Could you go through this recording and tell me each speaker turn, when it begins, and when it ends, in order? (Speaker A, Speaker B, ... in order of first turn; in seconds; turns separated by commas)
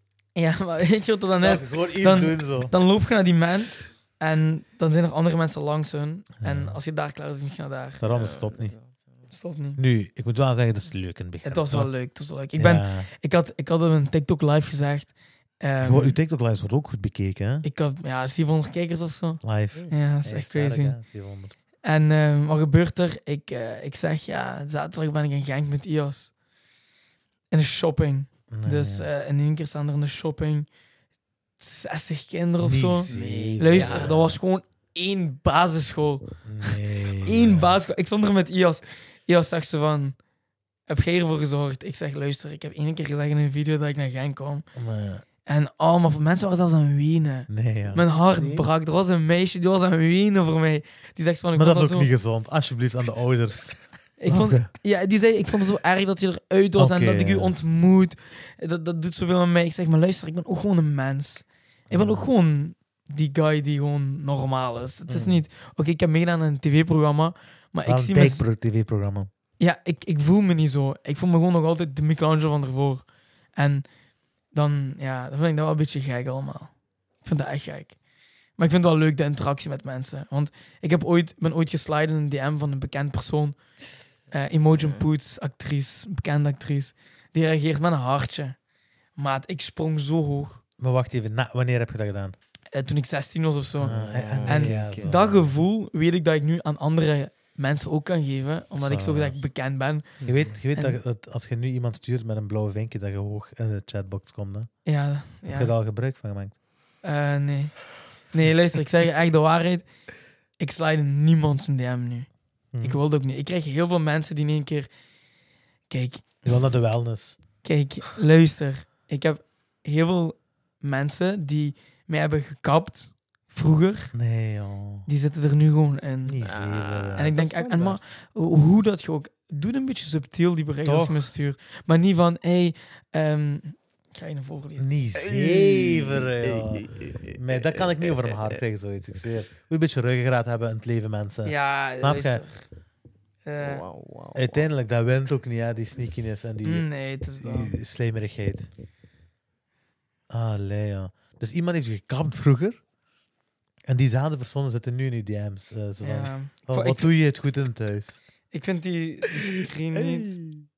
Speaker A: 0.3-8.0, Speaker B: 1.4-2.7, Speaker B: 6.4-6.8, Speaker B: 8.0-8.8, Speaker C: 8.0-9.3, Speaker A: 9.3-9.8, Speaker B: 9.8-11.9, Speaker A: 11.4-16.2, Speaker B: 12.6-13.1, Speaker B: 15.8-17.7, Speaker A: 17.6-21.0, Speaker B: 19.4-21.6, Speaker C: 19.7-20.0, Speaker A: 21.8-26.3, Speaker A: 27.5-30.7, Speaker B: 28.5-29.1, Speaker A: 31.6-40.2, Speaker B: 32.6-34.4, Speaker C: 33.0-34.2, Speaker B: 36.4-37.8, Speaker A: 40.9-44.7, Speaker B: 44.8-45.2, Speaker A: 45.5-52.1, Speaker B: 47.5-48.1, Speaker C: 48.3-48.7, Speaker B: 51.6-54.7, Speaker A: 54.2-68.4, Speaker B: 56.8-57.5, Speaker B: 61.9-62.3, Speaker B: 65.1-65.4, Speaker B: 67.9-69.3, Speaker A: 69.6-73.0, Speaker A: 73.6-73.8, Speaker A: 74.5-78.0, Speaker A: 78.6-83.6, Speaker A: 84.3-88.6, Speaker C: 84.7-85.1, Speaker A: 89.2-90.6, Speaker B: 90.8-92.3, Speaker A: 92.7-100.2, Speaker B: 93.8-95.5, Speaker C: 93.8-95.1, Speaker B: 98.8-99.4, Speaker C: 100.2-100.5, Speaker B: 100.2-104.7, Speaker A: 104.8-105.7, Speaker B: 105.5-106.5, Speaker A: 107.0-109.9, Speaker A: 110.6-112.3, Speaker B: 112.7-113.0, Speaker A: 112.8-114.9, Speaker A: 115.9-116.5, Speaker B: 116.5-117.4, Speaker A: 117.6-124.1, Speaker B: 124.1-125.1, Speaker A: 125.1-126.4, Speaker B: 126.3-127.3, Speaker C: 126.4-128.0, Speaker A: 127.2-134.9, Speaker B: 130.8-131.3, Speaker B: 134.8-142.4, Speaker C: 135.2-138.6, Speaker A: 141.4-142.7, Speaker A: 143.4-143.8, Speaker C: 143.6-144.7, Speaker B: 144.3-146.9, Speaker A: 146.6-147.7, Speaker B: 147.4-148.7, Speaker B: 150.3-152.8, Speaker B: 153.9-158.2, Speaker A: 156.0-157.1, Speaker A: 158.5-160.3, Speaker C: 159.9-160.7